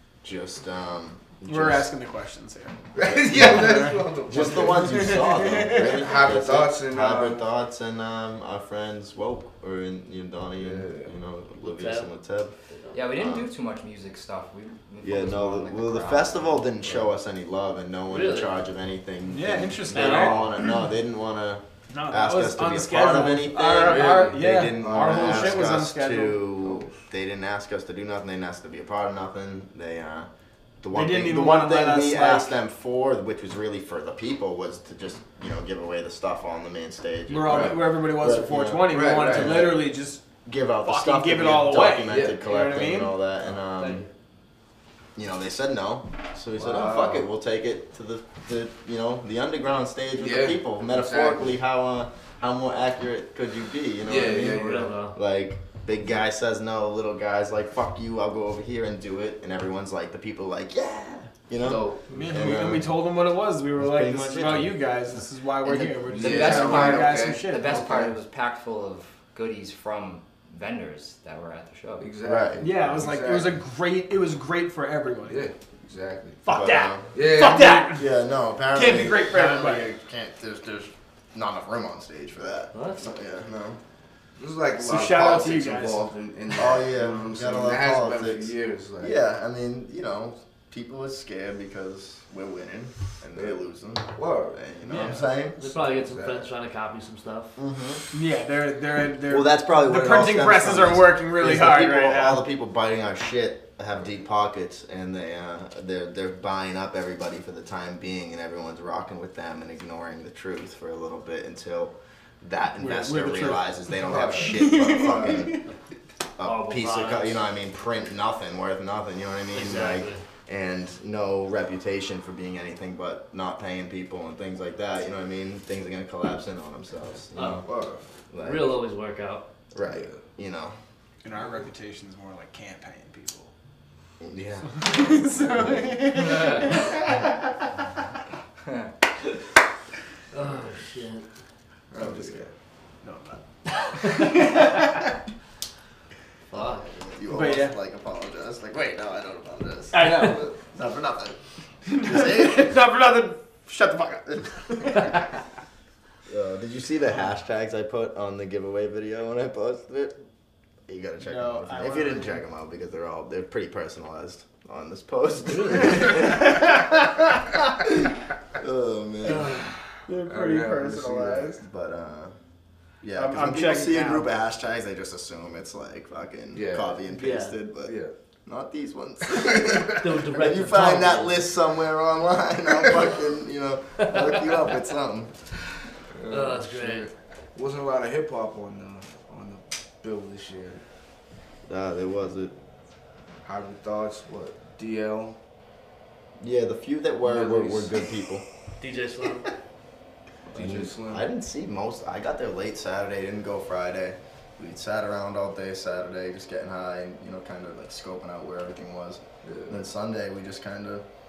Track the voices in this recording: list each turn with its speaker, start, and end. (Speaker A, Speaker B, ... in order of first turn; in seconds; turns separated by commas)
Speaker A: 0.2-1.9, Speaker B: 1.5-2.8, Speaker C: 3.0-7.4, Speaker A: 3.0-12.6, Speaker B: 3.3-4.0, Speaker B: 4.8-5.9, Speaker C: 10.6-11.1, Speaker D: 11.6-12.1, Speaker D: 12.7-13.0, Speaker E: 12.9-16.6, Speaker A: 13.1-13.5, Speaker A: 15.0-30.3, Speaker D: 18.1-18.5, Speaker B: 19.3-20.7, Speaker D: 19.9-20.5, Speaker B: 21.9-26.5, Speaker C: 23.6-25.9, Speaker C: 26.6-27.0, Speaker A: 30.8-39.9, Speaker B: 30.9-32.6, Speaker B: 37.3-40.2, Speaker C: 37.5-37.8, Speaker C: 38.9-39.8, Speaker A: 40.5-44.0, Speaker B: 40.8-43.2, Speaker C: 42.1-42.4, Speaker D: 43.7-44.1, Speaker A: 45.1-63.0, Speaker C: 46.6-47.3, Speaker C: 50.2-51.5, Speaker C: 54.0-54.9, Speaker D: 54.3-55.2, Speaker C: 61.6-62.6, Speaker B: 62.1-68.0, Speaker A: 63.8-64.8, Speaker E: 65.7-72.1, Speaker C: 66.1-68.1, Speaker C: 72.0-73.6, Speaker A: 72.2-72.8, Speaker B: 72.6-75.5, Speaker C: 75.2-76.4, Speaker B: 76.4-78.1, Speaker A: 76.5-77.1, Speaker C: 77.1-78.0, Speaker A: 78.0-83.8, Speaker B: 78.7-79.9, Speaker D: 82.7-83.1, Speaker C: 84.4-89.1, Speaker B: 84.8-86.1, Speaker A: 86.6-95.6, Speaker C: 94.1-95.1, Speaker D: 94.9-97.6, Speaker C: 95.8-96.5, Speaker A: 97.6-98.0, Speaker B: 98.1-102.4, Speaker A: 99.3-115.6, Speaker B: 112.8-115.6, Speaker C: 114.0-115.4, Speaker A: 116.4-127.7, Speaker D: 116.4-117.5, Speaker D: 119.5-120.2, Speaker D: 127.4-127.6, Speaker C: 127.6-128.1, Speaker A: 128.3-128.8, Speaker D: 128.4-129.5, Speaker A: 129.7-130.8, Speaker C: 129.8-130.2, Speaker B: 131.2-133.5, Speaker A: 134.2-136.0, Speaker B: 134.7-137.4, Speaker D: 140.3-141.2, Speaker C: 141.9-142.5, Speaker A: 142.0-142.4, Speaker B: 143.0-145.1, Speaker D: 146.5-146.9, Speaker A: 147.0-151.4, Speaker B: 147.3-147.8, Speaker B: 149.9-150.5, Speaker B: 151.9-155.2, Speaker A: 151.9-152.7, Speaker A: 156.3-160.2, Speaker A: 160.9-169.7, Speaker B: 161.2-162.4, Speaker D: 165.5-166.0, Speaker B: 166.1-166.9, Speaker D: 169.3-169.7, Speaker B: 170.1-171.6, Speaker C: 170.2-171.6, Speaker A: 171.5-172.3, Speaker A: 173.0-185.4, Speaker B: 173.1-174.3, Speaker C: 176.5-176.9, Speaker D: 177.1-177.6, Speaker C: 177.8-178.1, Speaker C: 179.4-179.9, Speaker D: 179.9-181.4, Speaker D: 184.0-184.4, Speaker C: 186.1-190.8, Speaker D: 186.3-187.1, Speaker A: 191.7-192.5, Speaker C: 193.4-195.4, Speaker A: 196.4-198.4, Speaker C: 197.2-197.9, Speaker D: 198.8-199.5, Speaker C: 200.5-201.2, Speaker A: 200.5-211.1, Speaker C: 209.4-209.8